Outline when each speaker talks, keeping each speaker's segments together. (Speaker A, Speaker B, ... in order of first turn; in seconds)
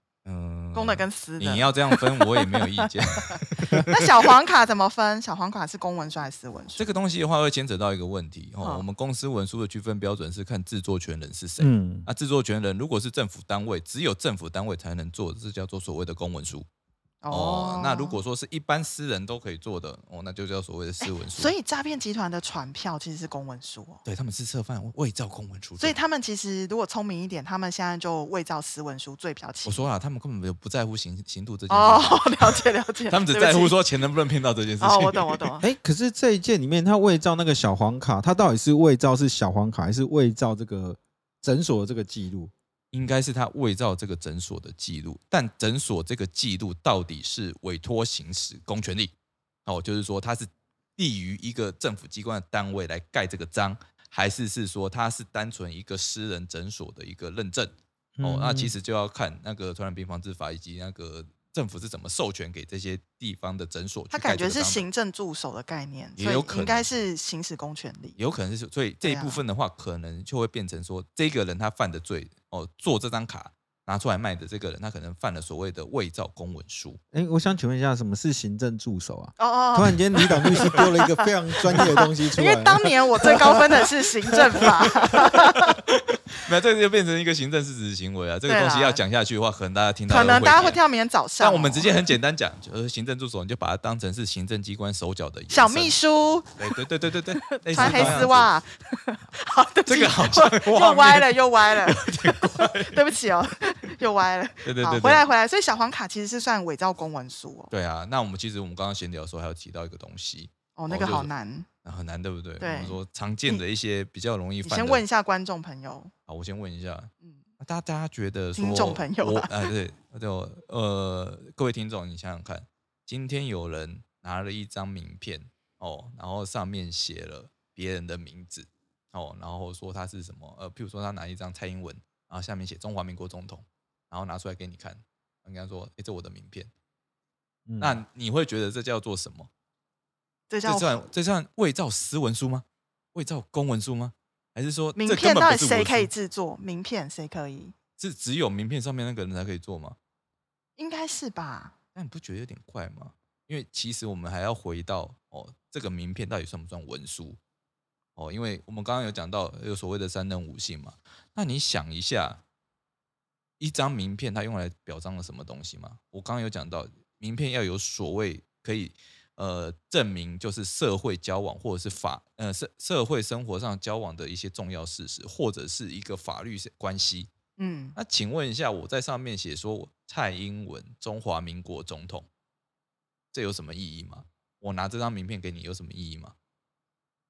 Speaker A: 0.2-4.3, 6.8-16.7, 17.3-21.6, 24.1-26.0, 29.6-35.5, 42.9-49.1, 49.7-64.9, 66.2-66.9, 68.2-77.0, 84.6-90.8, 91.4-96.0, 96.6-98.5, 99.9-103.0, 104.7-105.2, 107.7-111.3, 111.8-115.0, 116.3-136.7, 137.8-139.5, 140.7-146.1, 148.0-150.0, 151.9-157.4, 158.2-162.4, 163.6-177.3, 177.9-182.3, 183.3-186.3
Speaker B: 0.7-6.8, 8.6-8.9, 17.2-18.2, 21.0-24.0, 25.8-29.9, 31.7-33.8, 34.8-35.7, 64.1-68.2, 69.0-69.4, 79.4-85.8, 88.5-89.0, 90.1-91.9, 95.5-96.6, 97.4-107.7, 110.8-111.7, 112.6-113.6, 114.6-116.1, 118.6-119.7, 140.5-141.1, 145.0-147.7, 150.8-151.7, 177.6-177.9
Speaker C: 11.6-12.1, 35.6-42.5, 58.2-58.8, 77.1-83.4, 97.7-98.3, 137.7-138.0